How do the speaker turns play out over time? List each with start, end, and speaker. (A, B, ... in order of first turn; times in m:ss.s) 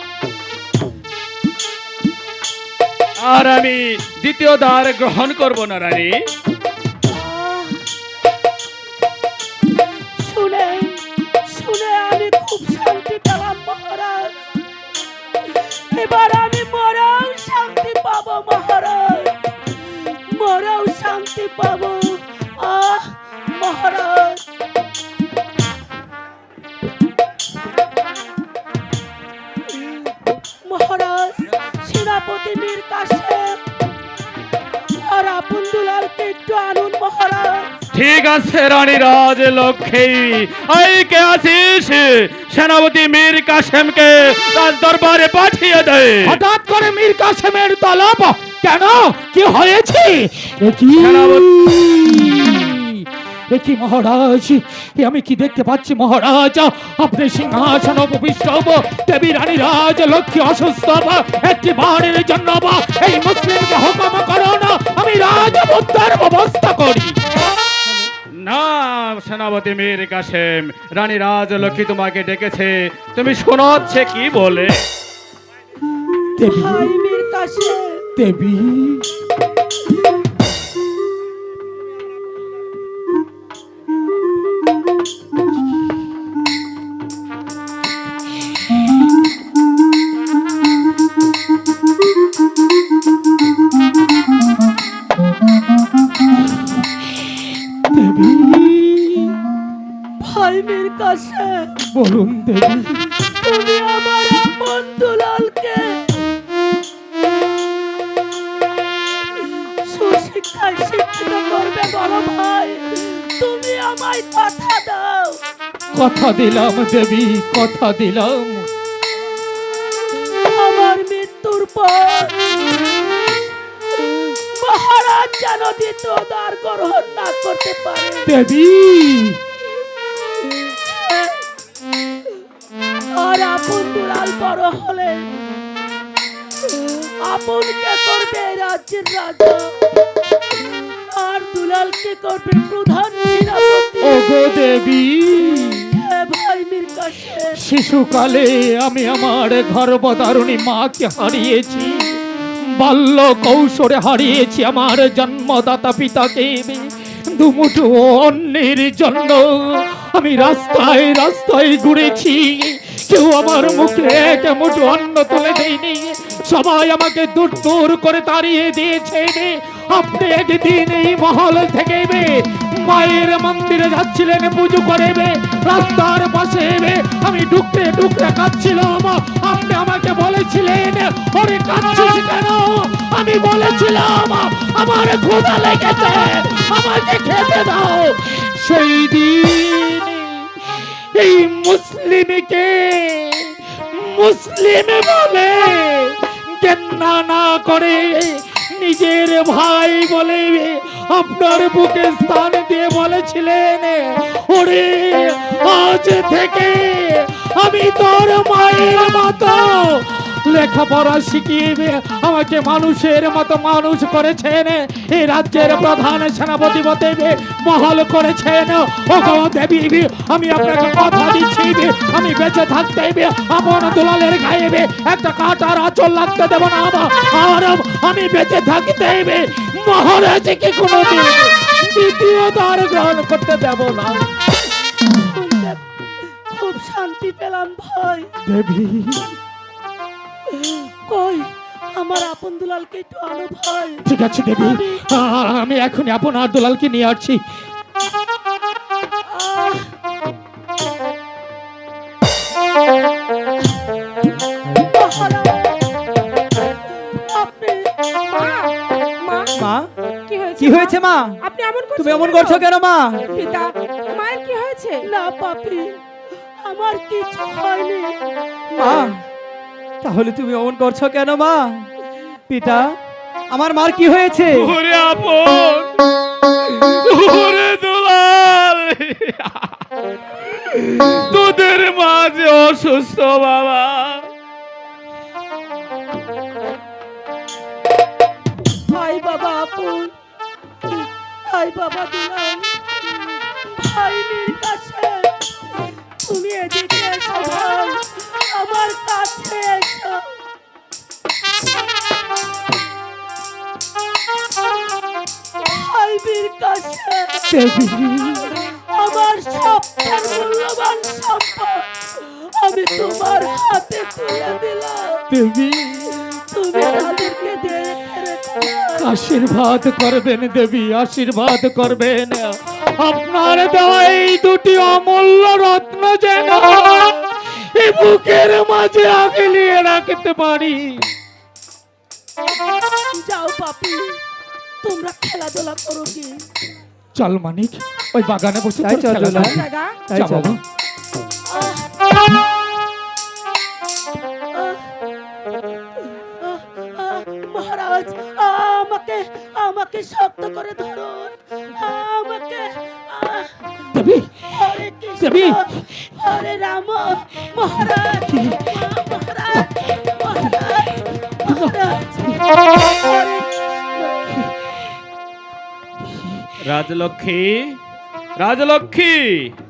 0:03.2-0:06.1 A
0:07.1-0:07.8 B
0:10.2-0:14.3 B
0:15.5-0:19.3 B
0:20.3-0:24.4 B
0:30.6-0:33.6 B
0:35.0-0:37.7 B
0:37.9-0:46.4 A
0:46.2-1:07.2 C
0:51.0-0:51.5 A
1:08.4-1:14.8 A
1:16.4-1:17.0 C
1:16.5-1:18.0 B
1:18.2-1:19.0 C
1:37.9-1:39.4 C
1:40.2-1:41.7 B
1:41.9-1:43.0 C
1:43.3-1:46.0 B
1:49.8-1:55.4 B
1:56.0-1:58.7 C
2:00.5-2:02.5 B
2:04.0-2:08.3 B
2:08.2-2:09.4 C
2:10.7-2:11.4 B
2:13.1-2:15.2 B
2:16.7-2:19.7 B
2:21.1-2:24.3 B
2:24.0-2:25.9 C
2:25.8-2:27.6 B
2:27.6-2:31.9 C
2:32.8-3:54.2 C
3:55.1-3:55.8 B
3:56.5-3:58.3 B
3:58.5-3:59.3 C
4:00.5-4:04.0 B
4:04.1-4:07.4 C
4:04.6-4:05.0 B
4:09.3-4:09.9 B
4:14.8-4:15.7 B
4:17.3-4:17.9 B
4:18.2-4:19.5 D
4:19.5-4:19.9 E
4:20.2-4:22.7 D
4:20.6-4:21.4 E
4:22.0-4:23.2 E
4:23.3-4:25.0 D
4:25.0-4:25.9 B
4:26.6-4:28.1 B
4:28.7-4:29.2 E
4:30.0-4:31.9 E
4:32.5-4:32.9 E
4:33.5-4:34.7 E
4:34.5-4:35.9 A
4:36.7-4:39.7 A
4:40.6-4:44.2 A
4:48.9-4:50.1 B
4:50.9-4:52.7 B
4:53.7-4:55.3 B
4:56.2-5:00.3 B
5:05.6-5:07.5 B
5:07.5-5:08.5 C
5:08.6-5:15.2 B
5:15.3-5:16.1 C
5:16.5-5:19.1 B
5:19.0-5:22.5 C
5:23.0-5:31.0 C
5:33.2-5:34.2 B
5:34.8-5:36.4 B
5:37.2-5:40.6 C
5:38.8-5:40.5 E
5:39.4-5:40.0 D
5:41.5-5:41.9 B
5:44.5-5:44.8 B
5:46.4-5:53.5 B
5:53.9-5:54.3 C
5:54.5-6:02.2 B
5:55.2-5:56.1 C
5:57.8-5:58.6 C
6:01.4-6:02.4 C
6:02.7-6:03.5 B
6:04.2-6:04.5 C
6:06.2-6:06.4 C
6:06.6-6:07.8 A
6:08.4-6:09.5 A